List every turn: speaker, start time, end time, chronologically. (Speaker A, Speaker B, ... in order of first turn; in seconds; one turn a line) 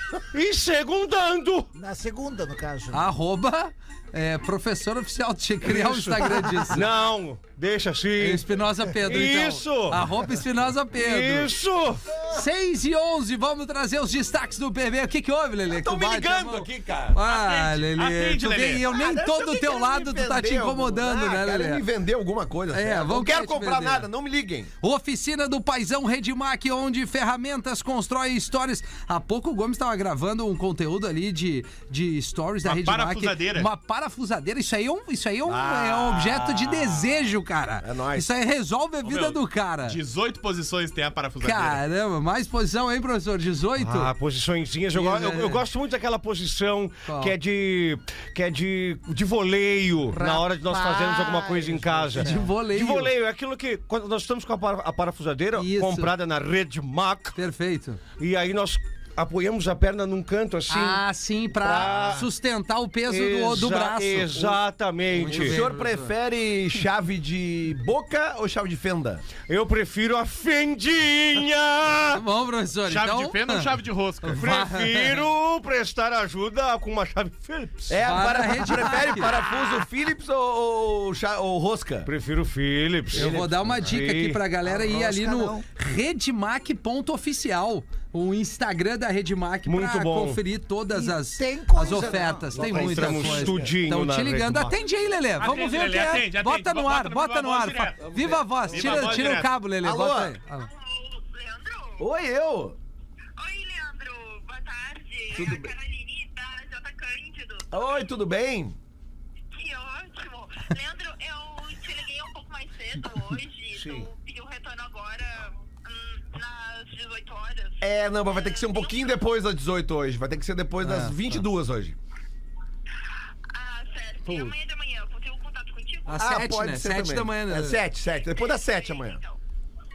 Speaker A: 0.2-1.7
Speaker B: 1.7-3.1
Speaker C: 2.9-6.9
Speaker A: 5.7-10.1
Speaker C: 8.2-11.5
Speaker A: 10.9-12.0
Speaker C: 12.3-21.8
Speaker D: 15.7-17.2
Speaker E: 17.2-18.8
Speaker D: 18.9-24.7
Speaker C: 22.7-24.1
Speaker C: 24.8-40.0
Speaker E: 32.6-33.7
Speaker D: 35.5-37.0
Speaker D: 37.8-38.3
Speaker E: 39.0-41.8
Speaker C: 41.4-44.1
Speaker A: 43.8-57.4
Speaker C: 44.9-45.6
Speaker C: 47.0-47.3
Speaker B: 50.1-52.3
Speaker C: 52.2-53.1
Speaker C: 55.6-56.1
Speaker C: 57.4-58.0
Speaker A: 58.2-62.3
Speaker C: 60.7-64.4
Speaker A: 63.1-65.6
Speaker C: 65.1-66.1
Speaker D: 65.2-69.2
Speaker A: 69.5-72.2
Speaker C: 72.1-73.7
Speaker E: 72.9-74.5
Speaker C: 74.2-75.2
Speaker A: 74.4-78.1
Speaker D: 77.9-82.1
Speaker C: 78.0-79.3
Speaker A: 82.0-84.4
Speaker C: 83.1-100.7
Speaker D: 83.2-83.8
Speaker B: 84.6-85.6
Speaker A: 89.7-90.4
Speaker B: 90.9-93.2
Speaker D: 92.5-93.7
Speaker A: 92.6-94.7
Speaker E: 95.4-98.2
Speaker D: 98.0-100.3
Speaker E: 98.7-99.5
Speaker F: 100.5-102.1
Speaker D: 102.0-102.8
Speaker F: 103.4-108.1
Speaker D: 105.3-105.7
Speaker D: 107.7-108.8
Speaker F: 109.5-119.2
Speaker D: 113.7-114.1
Speaker D: 117.8-122.0
Speaker C: 120.8-121.4
Speaker F: 123.5-126.2
Speaker C: 124.2-124.6
Speaker C: 126.1-127.8
Speaker D: 126.2-129.2
Speaker F: 128.2-129.4